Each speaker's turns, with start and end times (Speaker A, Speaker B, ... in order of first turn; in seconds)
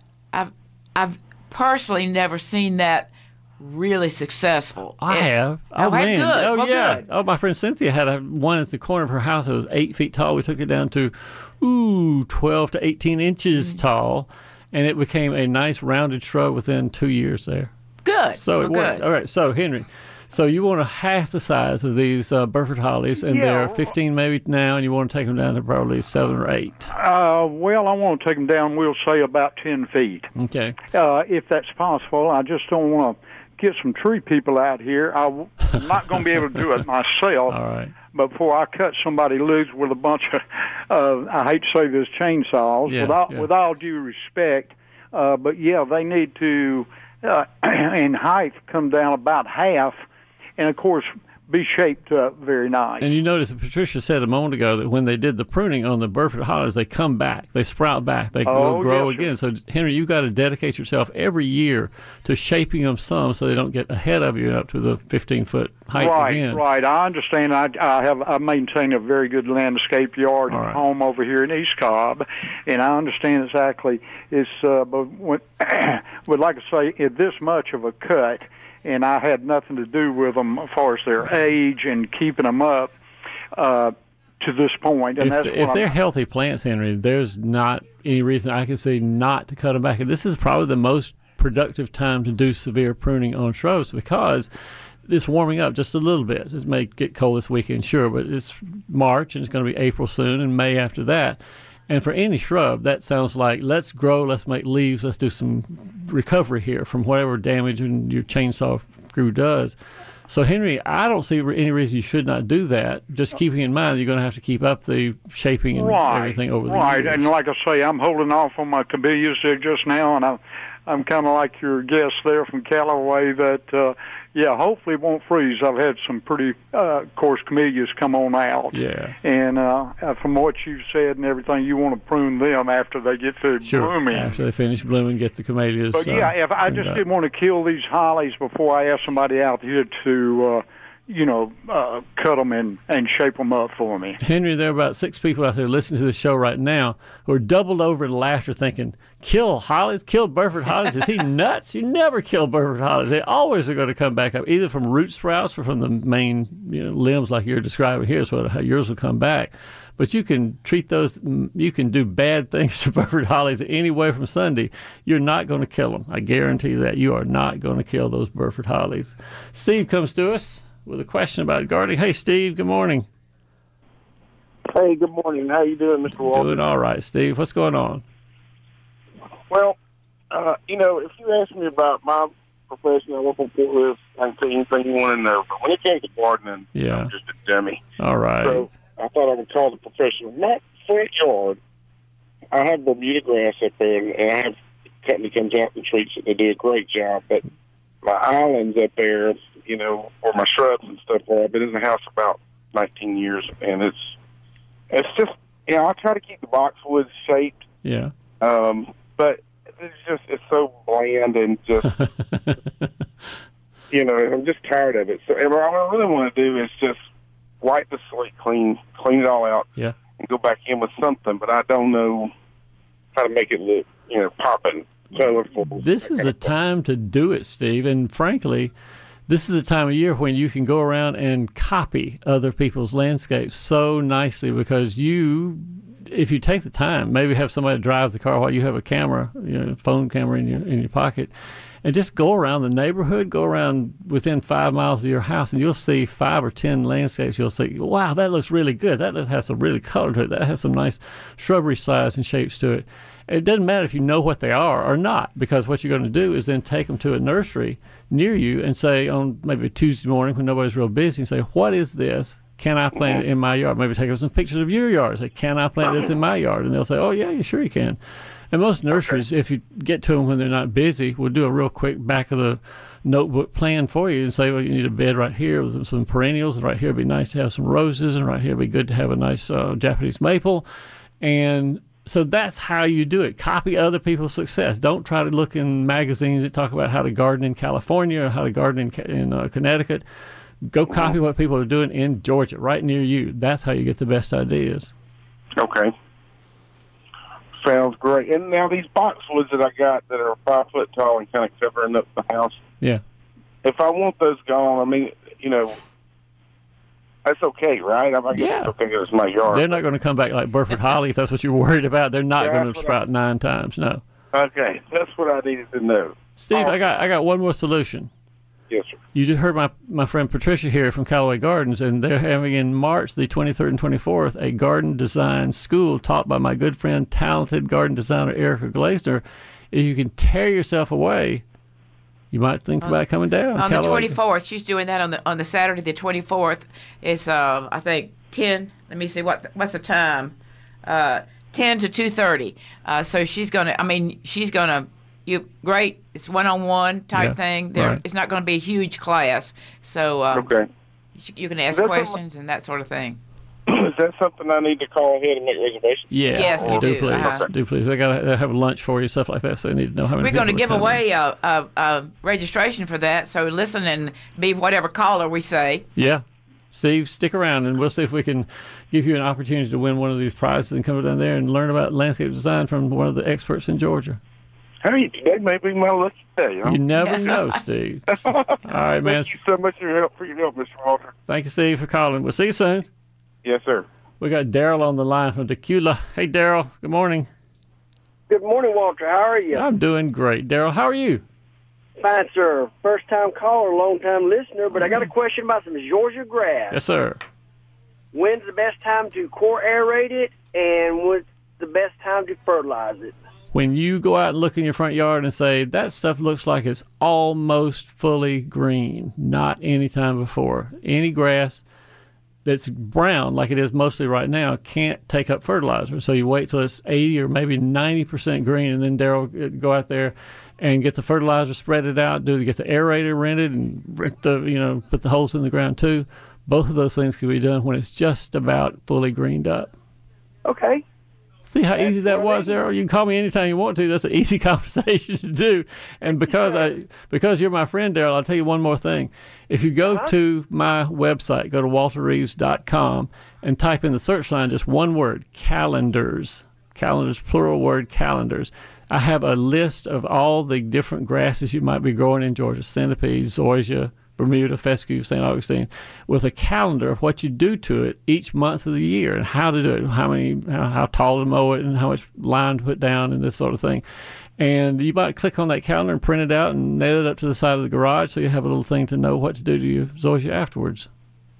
Speaker A: 0.3-7.0, 18.0-19.0, 333.5-340.3, 340.8-350.5, 351.2-353.2, 356.3-357.4, 360.2-365.9, 377.0-377.6
Speaker B: 5.0-17.7, 18.4-26.9, 30.4-30.8, 37.5-37.9, 42.9-43.5, 53.0-66.6, 70.5-70.8, 85.2-94.5, 95.1-109.8, 110.3-117.3, 128.7-129.2, 133.6-137.0, 144.2-173.1, 176.2-178.0, 186.7-187.1, 188.0-188.7, 207.8-208.1, 211.9-212.9, 225.7-228.7, 229.3-241.3, 241.8-268.0, 268.5-280.6, 281.2-290.0, 290.6-294.9, 308.3-308.7, 309.5-314.0, 316.4-318.1, 319.1-331.4, 332.3-334.2, 347.1-348.0, 356.1-361.0, 365.9-374.2, 376.6-379.3, 381.3-382.9, 384.2-387.3, 389.5-391.2, 396.7-397.2, 403.5-411.6, 412.4-429.7, 431.5-463.8, 464.4-470.9
Speaker C: 23.2-23.9, 26.9-30.3, 30.9-37.6, 38.1-50.0, 50.6-53.1, 58.5-59.3, 65.9-82.9, 83.5-85.9, 115.8-134.4, 135.9-144.2
Speaker D: 174.7-176.6, 179.5-179.8, 180.3-187.8, 188.4-191.6, 192.5-197.4, 198.0-204.2, 204.9-207.7, 208.4-211.9, 213.9-217.0, 217.6-222.3, 223.1-226.4, 295.6-295.9, 297.6-302.6, 303.6-305.8, 307.2-309.7, 312.4-312.9, 314.3-316.9, 318.7-319.0, 350.3-350.7, 351.7-352.2, 353.7-357.5, 374.8-376.8, 378.1-381.1, 383.4-383.9
Speaker E: 388.3-389.7, 392.0-396.8, 398.1-403.2, 430.4-430.8, 431.8-432.5, 436.0-436.7, 439.9-440.1